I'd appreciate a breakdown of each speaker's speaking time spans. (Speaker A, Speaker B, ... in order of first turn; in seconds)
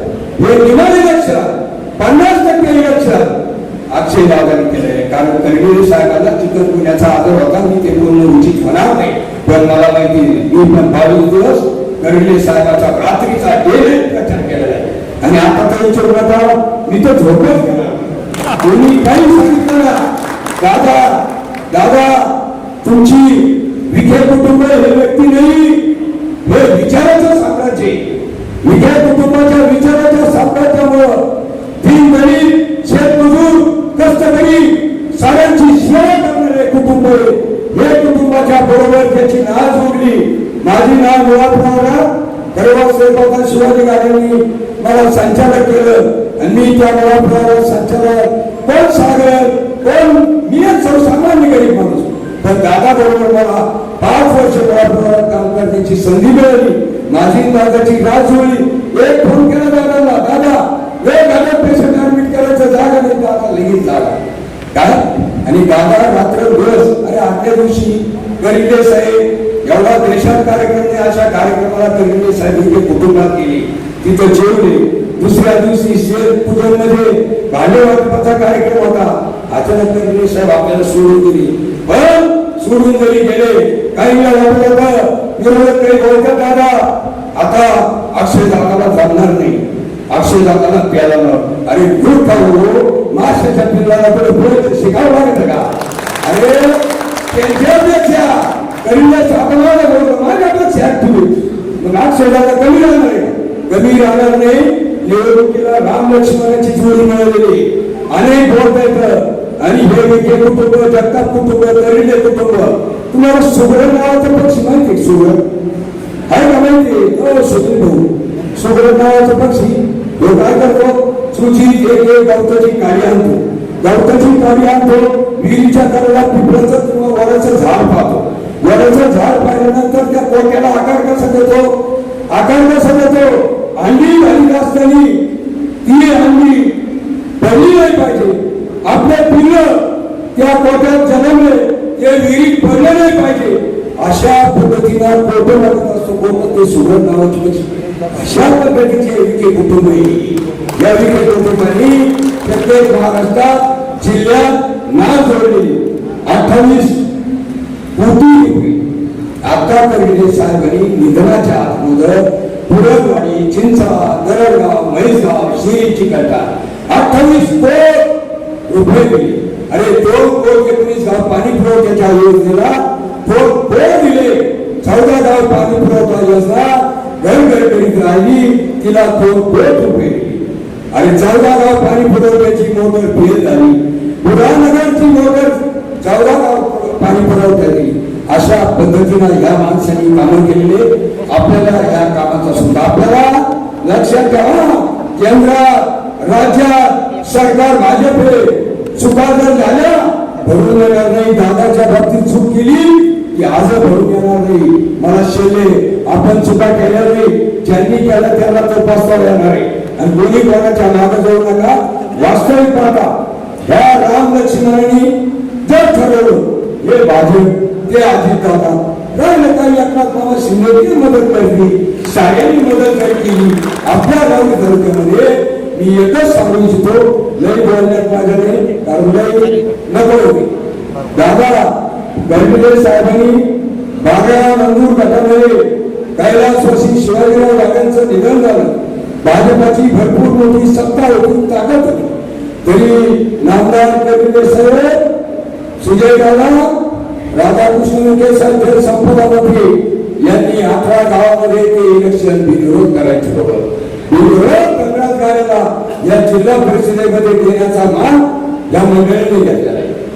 Speaker A: 0.4-3.4, 3.9-18.0, 18.6-20.1, 20.6-25.9, 26.4-28.1, 28.6-31.2, 31.8-64.2, 64.7-95.7, 96.2-115.4, 116.3-131.8, 132.3-135.2, 135.8-136.8, 137.4-139.8, 140.3-157.1, 158.0-158.8, 159.4-168.1, 168.7-213.1, 213.6-215.1, 215.6-230.5, 231.1-233.4, 234.0-245.0, 245.8-246.8, 247.3-259.9